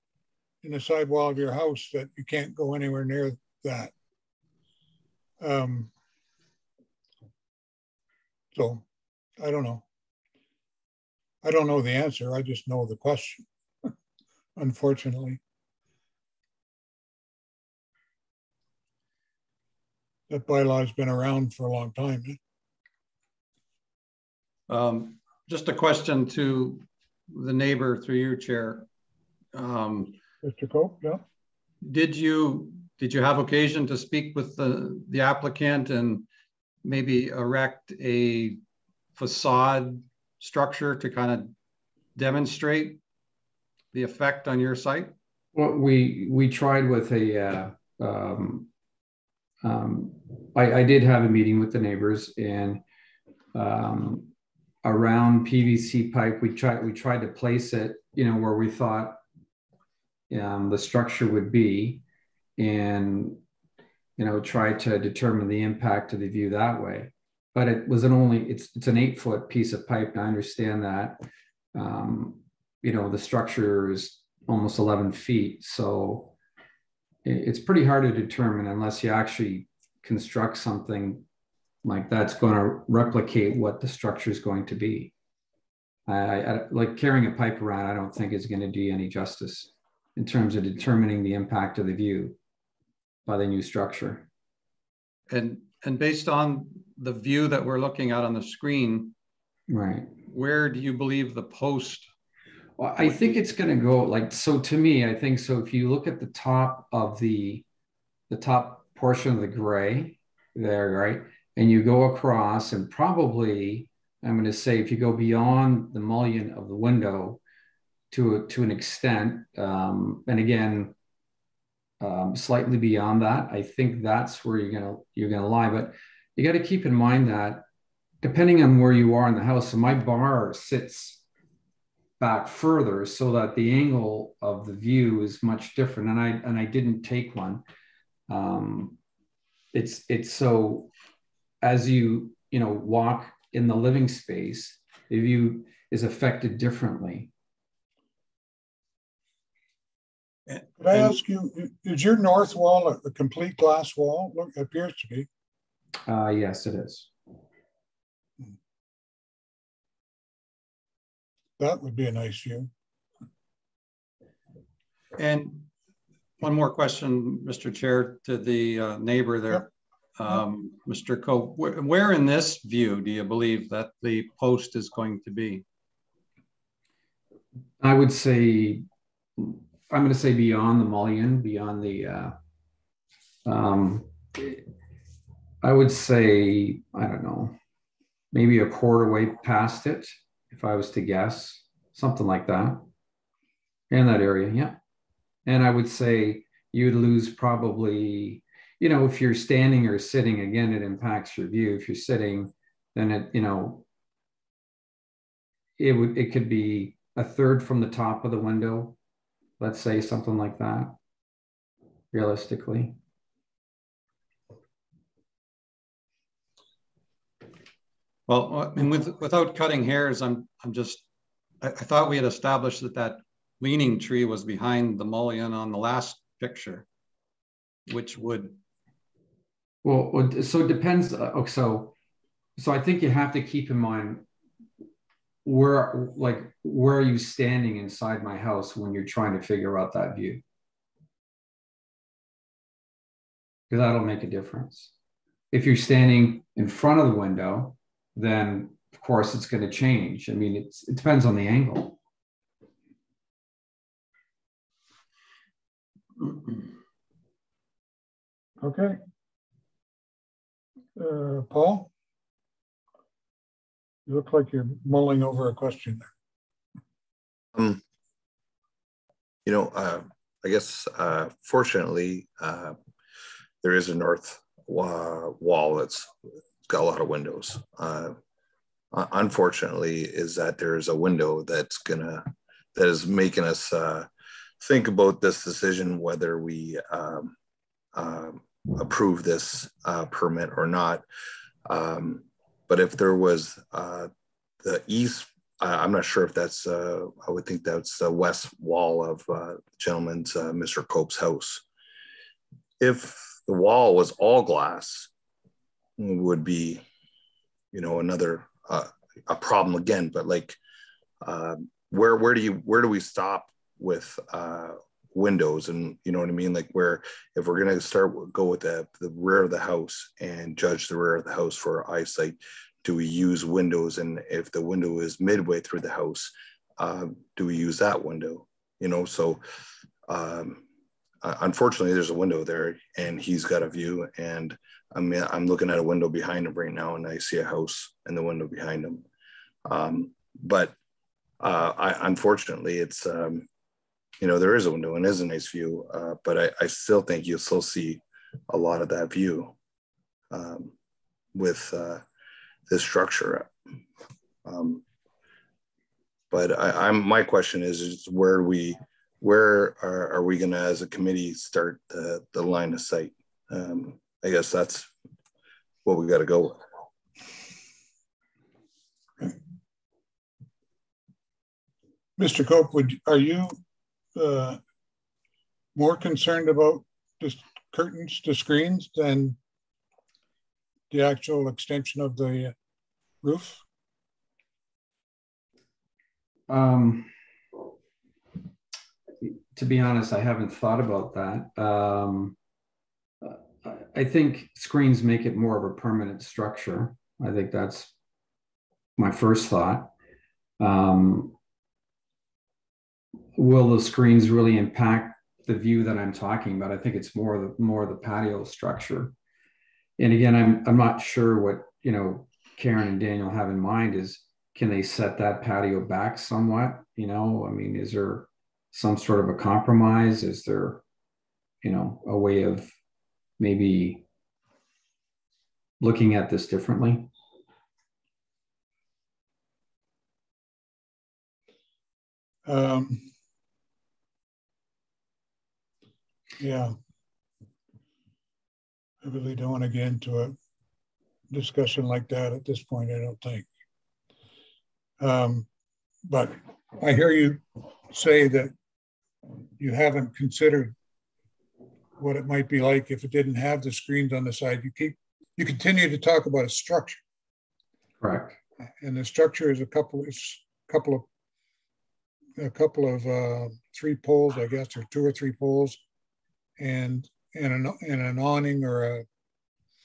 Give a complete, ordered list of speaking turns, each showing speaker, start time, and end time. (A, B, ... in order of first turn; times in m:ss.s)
0:00.6-0:03.9 A
0:05.4-0:05.9 A
0:08.5-0:08.8 A
0:09.4-0:09.8 A
0:11.4-0:13.5 A
0:14.6-0:15.4 A
0:20.3-0:22.4 A
0:24.7-0:28.9 B
0:29.5-0:30.2 B
0:30.4-0:31.2 A
0:31.8-0:36.2 B
0:36.8-0:38.6 B
0:39.2-0:41.5 B
0:42.2-0:43.0 B
0:43.9-0:45.1 B
0:45.5-0:48.7 C
0:49.6-0:52.8 C
0:53.5-0:54.3 C
0:54.8-0:59.2 C
1:00.3-1:02.0 C
1:02.6-1:03.4 C
1:04.2-1:11.2 C
1:11.8-1:16.3 C
1:17.2-1:21.2 C
1:21.8-1:25.1 C
1:26.1-1:32.4 C
1:33.3-1:34.3 C
1:35.3-1:39.2 B
1:39.7-1:40.1 C
1:40.3-1:42.1 B
1:42.8-1:47.6 C
1:43.0-1:43.4 B
1:48.3-1:57.4 C
1:58.1-2:00.9 C
2:02.0-2:07.6 C
2:08.2-2:11.2 C
2:12.2-2:17.6 C
2:18.3-2:19.0 C
2:19.7-2:20.9 C
2:21.6-2:27.3 C
2:30.5-2:31.1 B
2:30.8-2:35.3 A
2:36.1-2:37.1 C
2:41.6-2:42.7 A
2:45.2-2:45.7 B
2:46.4-2:55.6 B
2:57.8-2:58.8 C
2:59.4-3:02.4 C
3:03.5-3:04.6 C
3:05.6-3:07.6 C
3:08.3-3:12.8 C
3:13.9-3:14.8 C
3:15.5-3:23.8 C
3:25.8-3:29.0 C
3:29.6-3:31.0 C
3:32.1-3:33.0 C
3:38.3-3:41.0 B
3:41.6-3:46.9 B
3:47.9-3:48.6 B
3:49.8-3:52.0 C
3:52.6-3:54.2 C
3:55.4-4:00.4 C
4:03.7-4:04.9 C
4:05.5-4:12.0 C
4:18.6-4:19.0 A
4:21.0-4:21.9 A
4:24.1-4:26.1 A
4:27.6-4:27.8 D
4:29.5-4:32.8 D
4:33.6-4:36.1 D
4:36.6-4:38.2 D
4:38.9-4:44.1 D
4:44.6-4:47.3 D
4:48.0-4:51.0 D
4:51.7-4:54.1 D
4:54.6-5:01.6 D
5:02.8-5:05.1 D
5:06.0-5:06.8 D
5:07.7-5:10.6 D
5:11.2-5:29.4 D
5:30.1-5:30.6 D
5:31.2-5:39.0 D
5:39.7-5:40.8 D
5:41.4-5:43.5 D
5:44.2-5:49.5 D
5:50.3-5:50.7 D
5:51.4-5:52.0 D
5:52.7-5:53.5 D
5:54.4-5:54.8 D
5:56.3-6:04.9 D
6:05.8-6:06.6 D
6:12.2-6:13.6 A
6:14.2-6:14.6 A
6:15.8-6:19.4 A
6:20.9-6:22.5 A
6:23.2-6:23.6 A
6:26.5-6:27.1 C
6:29.2-6:32.4 C
6:33.2-6:37.9 C
6:39.0-6:39.9 C
6:40.6-6:41.4 C
6:43.4-6:49.2 C
6:50.0-7:00.8 C
7:01.6-7:02.7 C
7:03.4-7:04.0 C
7:05.8-7:07.1 C
7:12.5-7:13.1 A
7:16.4-7:16.8 A
7:19.0-7:20.4 A
7:21.3-7:23.5 A
7:25.0-7:25.5 A
7:26.1-7:28.5 A
7:29.6-7:30.8 A
7:32.0-7:37.0 A
7:38.0-7:38.4 C
7:38.8-7:41.1 A
7:42.4-7:45.8 A
7:46.6-7:49.0 A